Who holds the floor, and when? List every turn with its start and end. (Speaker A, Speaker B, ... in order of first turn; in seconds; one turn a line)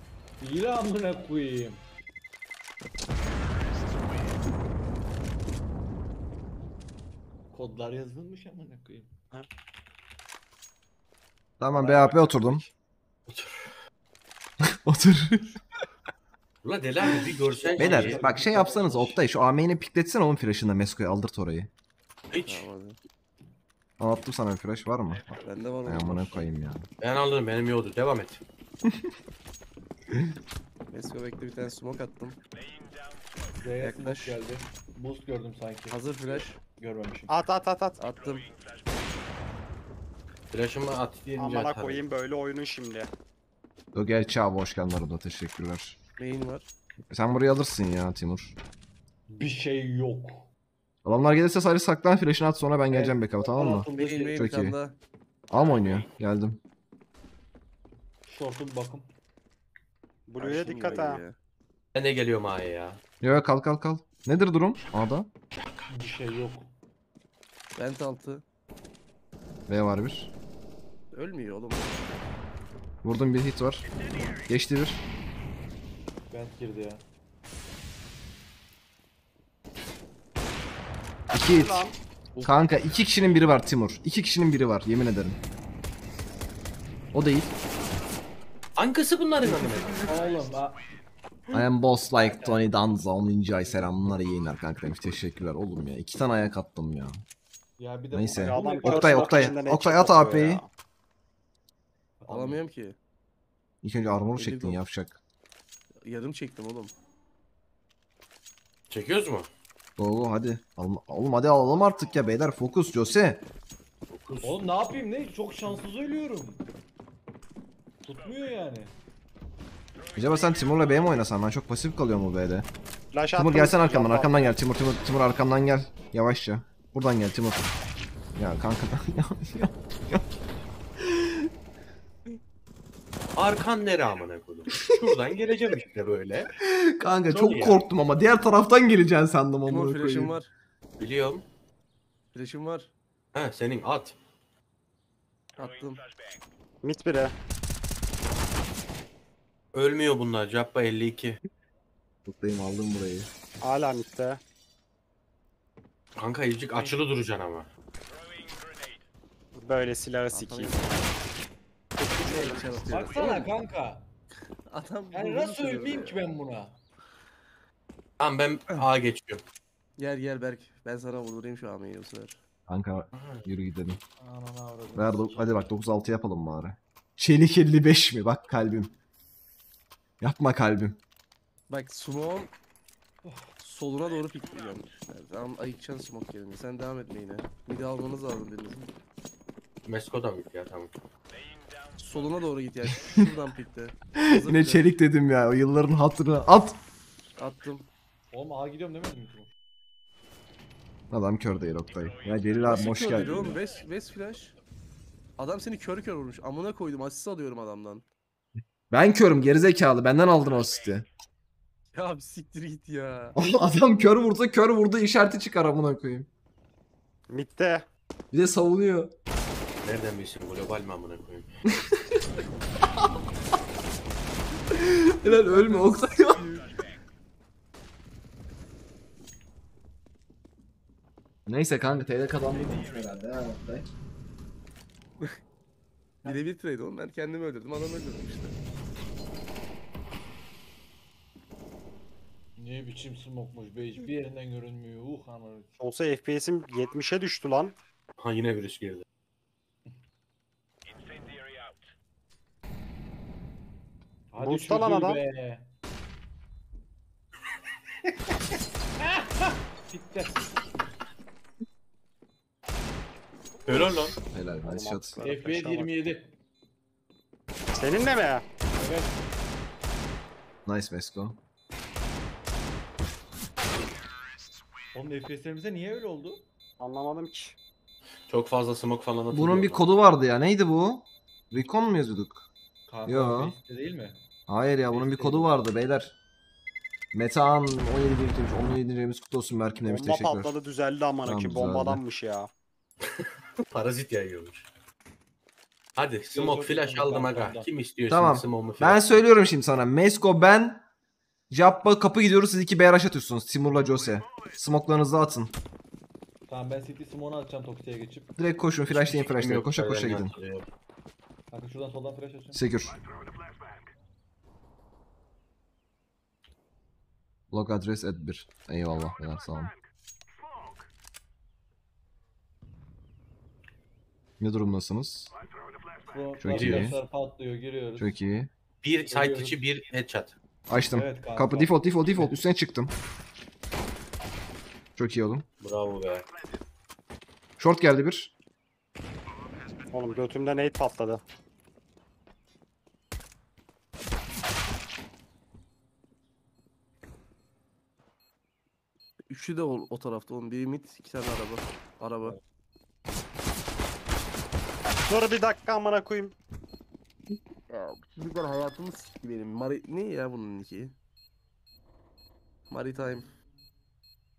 Speaker A: 0.4-1.8
Speaker A: 7.5-9.1
Speaker B: 11.6-12.6
Speaker A: 11.8-12.6
Speaker C: 13.3-13.8
Speaker B: 14.6-15.6
Speaker C: 16.6-18.2
Speaker A: 17.5-19.2
Speaker B: 17.8-21.7
Speaker C: 22.3-22.7
Speaker D: 22.4-23.0
Speaker B: 24.0-26.9
Speaker D: 25.4-26.5
Speaker C: 27.0-28.4
Speaker B: 28.8-29.1
Speaker D: 30.9-32.4
Speaker A: 33.6-36.0
Speaker D: 33.8-34.4
Speaker D: 35.9-36.6
Speaker A: 36.8-37.4
Speaker E: 37.3-38.0
Speaker D: 38.0-38.5
Speaker C: 40.5-42.0
Speaker E: 41.4-43.1
Speaker B: 43.9-46.0
Speaker D: 46.2-46.7
Speaker B: 47.1-48.5
Speaker A: 49.3-50.5
Speaker B: 51.0-54.8
Speaker A: 52.9-54.5
Speaker D: 53.9-55.0
Speaker B: 55.5-56.6
Speaker A: 58.2-59.1
Speaker E: 60.3-61.2
Speaker D: 60.4-61.4
Speaker C: 61.9-63.0
Speaker B: 63.2-65.3
Speaker A: 65.9-66.7
Speaker D: 67.8-68.4
Speaker B: 69.7-70.3
Speaker D: 71.1-72.3
Speaker B: 73.0-73.9
Speaker B: 74.5-75.0
Speaker A: 76.3-77.0
Speaker B: 81.3-81.9
Speaker E: 81.3-82.0
Speaker D: 82.3-82.6
Speaker B: 82.4-85.4
Speaker B: 87.1-87.5
Speaker C: 88.8-90.3
Speaker A: 89.4-90.8
Speaker B: 91.5-97.2
Speaker A: 92.2-92.7
Speaker A: 93.5-94.2
Speaker A: 97.8-99.6
Speaker B: 98.1-100.6
Speaker E: 98.3-100.7
Speaker A: 102.2-102.6
Speaker D: 102.3-103.0
Speaker B: 103.8-105.2
Speaker D: 104.3-104.8
Speaker D: 106.0-106.9
Speaker C: 108.9-109.5
Speaker B: 110.0-113.5
Speaker C: 114.1-114.6
Speaker A: 114.4-116.6
Speaker A: 118.0-118.9
Speaker B: 120.1-122.7
Speaker E: 123.1-124.6
Speaker B: 123.3-127.7
Speaker B: 128.3-130.3
Speaker B: 131.0-131.5
Speaker C: 133.3-136.5
Speaker B: 136.6-140.4
Speaker C: 137.3-137.8
Speaker D: 139.7-140.5
Speaker C: 141.0-141.4
Speaker D: 142.3-142.9
Speaker C: 143.3-144.2
Speaker D: 145.6-146.0
Speaker E: 146.8-147.3
Speaker C: 149.7-151.4
Speaker B: 152.2-153.3
Speaker E: 153.6-154.4
Speaker C: 156.2-157.7
Speaker E: 159.6-160.9
Speaker D: 160.3-161.1
Speaker D: 162.0-163.5
Speaker E: 162.2-162.6
Speaker A: 162.9-164.1
Speaker D: 164.7-166.2
Speaker A: 165.1-166.8
Speaker C: 168.2-169.4
Speaker D: 170.0-172.4
Speaker B: 172.7-174.0
Speaker C: 173.1-173.5
Speaker A: 174.2-175.7
Speaker B: 174.9-178.9
Speaker B: 180.2-181.0
Speaker D: 181.7-182.5
Speaker A: 183.2-183.5
Speaker D: 183.6-188.9
Speaker C: 189.8-190.9
Speaker D: 192.0-194.9
Speaker B: 194.2-196.8
Speaker D: 197.4-197.9
Speaker A: 198.3-199.5
Speaker B: 201.1-203.6
Speaker D: 202.6-204.5
Speaker D: 205.4-208.0
Speaker B: 208.9-211.1
Speaker D: 211.9-213.4
Speaker B: 213.3-216.3
Speaker E: 217.3-217.9
Speaker B: 218.3-219.1
Speaker C: 219.8-221.5
Speaker B: 221.8-222.2
Speaker B: 224.7-226.4
Speaker D: 225.3-226.7
Speaker A: 225.3-225.9
Speaker B: 231.4-233.9
Speaker D: 236.2-238.6
Speaker A: 242.6-245.8
Speaker E: 245.8-247.8
Speaker C: 248.2-249.0
Speaker A: 254.3-255.7
Speaker E: 254.4-255.2
Speaker A: 259.0-260.4
Speaker C: 263.6-264.2
Speaker B: 264.2-265.2
Speaker E: 264.6-265.9
Speaker A: 265.2-266.3
Speaker E: 267.7-268.4
Speaker A: 268.7-269.2
Speaker B: 270.6-271.4
Speaker A: 274.9-276.4
Speaker E: 276.8-277.6
Speaker C: 278.3-279.9
Speaker B: 279.3-282.5
Speaker A: 282.9-284.2
Speaker B: 283.0-283.6
Speaker B: 284.5-286.1
Speaker A: 284.9-285.6
Speaker B: 287.1-290.5
Speaker E: 289.8-292.5
Speaker B: 291.2-292.0
Speaker C: 293.0-294.7
Speaker C: 295.9-299.2
Speaker A: 296.3-297.7
Speaker B: 298.1-300.8
Speaker B: 301.5-305.5
Speaker A: 306.5-309.3
Speaker B: 308.4-310.3
Speaker C: 309.1-310.6
Speaker A: 311.5-312.6
Speaker B: 312.5-313.0
Speaker B: 317.5-319.7
Speaker B: 324.4-325.3
Speaker A: 326.0-328.1
Speaker B: 326.4-327.0
Speaker C: 326.5-326.9
Speaker B: 328.0-328.5
Speaker C: 328.8-330.4
Speaker A: 329.1-329.6
Speaker B: 330.7-332.9
Speaker A: 330.8-332.4
Speaker B: 334.9-335.4
Speaker C: 335.6-336.3
Speaker B: 337.6-338.3
Speaker E: 339.9-341.2
Speaker D: 349.3-352.4
Speaker E: 355.1-356.3
Speaker D: 357.7-360.9
Speaker D: 362.7-363.3